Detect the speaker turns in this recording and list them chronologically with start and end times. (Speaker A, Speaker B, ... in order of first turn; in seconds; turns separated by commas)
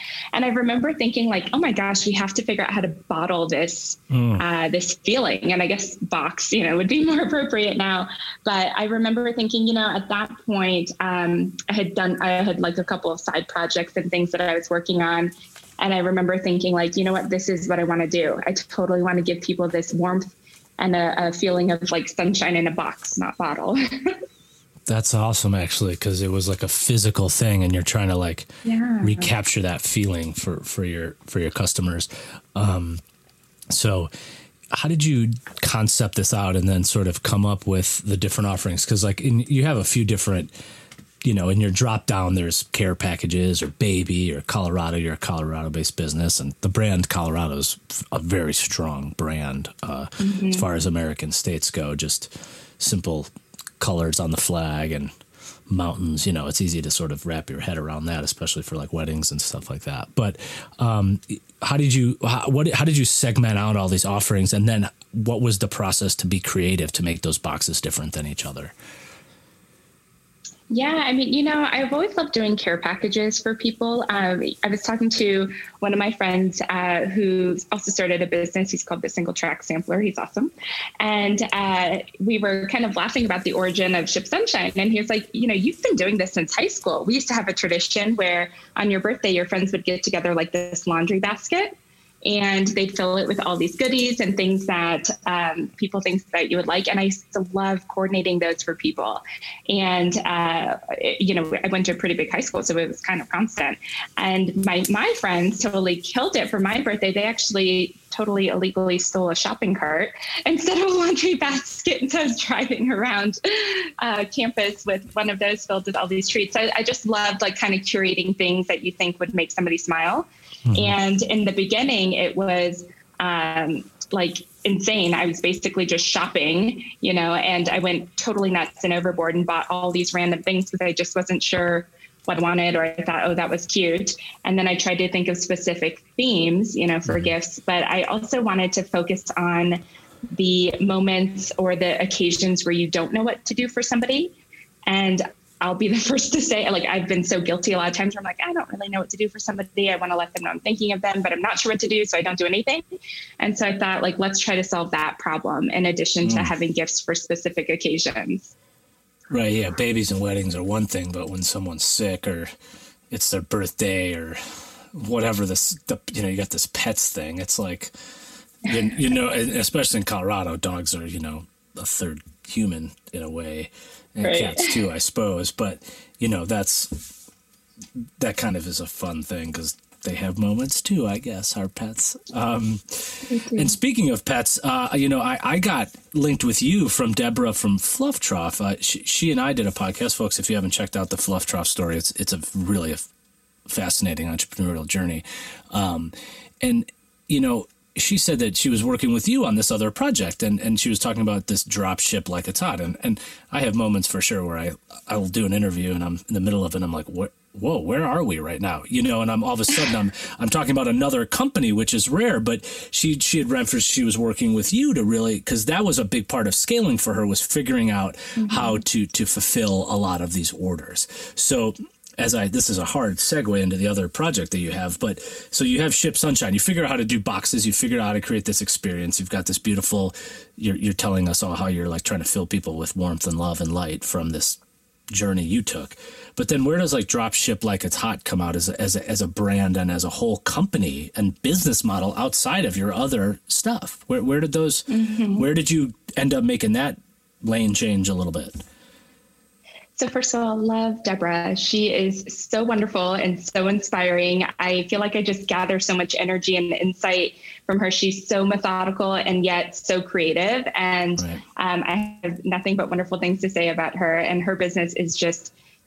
Speaker A: 0.3-24.1, Speaker B: 4.1-4.5, Speaker B: 24.9-28.5, Speaker A: 28.6-29.3, Speaker B: 29.0-33.0, Speaker B: 33.7-34.1, Speaker B: 34.7-40.5, Speaker B: 41.2-53.3, Speaker A: 50.2-50.7, Speaker B: 53.8-55.1, Speaker B: 55.7-68.7, Speaker A: 70.7-139.8, Speaker B: 120.7-121.0, Speaker A: 140.4-144.4, Speaker A: 144.9-152.8, Speaker A: 153.4-158.5, Speaker B: 156.2-156.5, Speaker B: 159.3-162.5, Speaker B: 163.1-164.4, Speaker B: 164.9-167.9, Speaker B: 168.7-177.1, Speaker A: 174.2-174.8, Speaker B: 178.2-193.1, Speaker A: 183.3-183.8, Speaker B: 193.7-234.6, Speaker A: 218.4-218.8, Speaker B: 235.1-248.6, Speaker A: 244.9-245.5, Speaker A: 250.0-265.5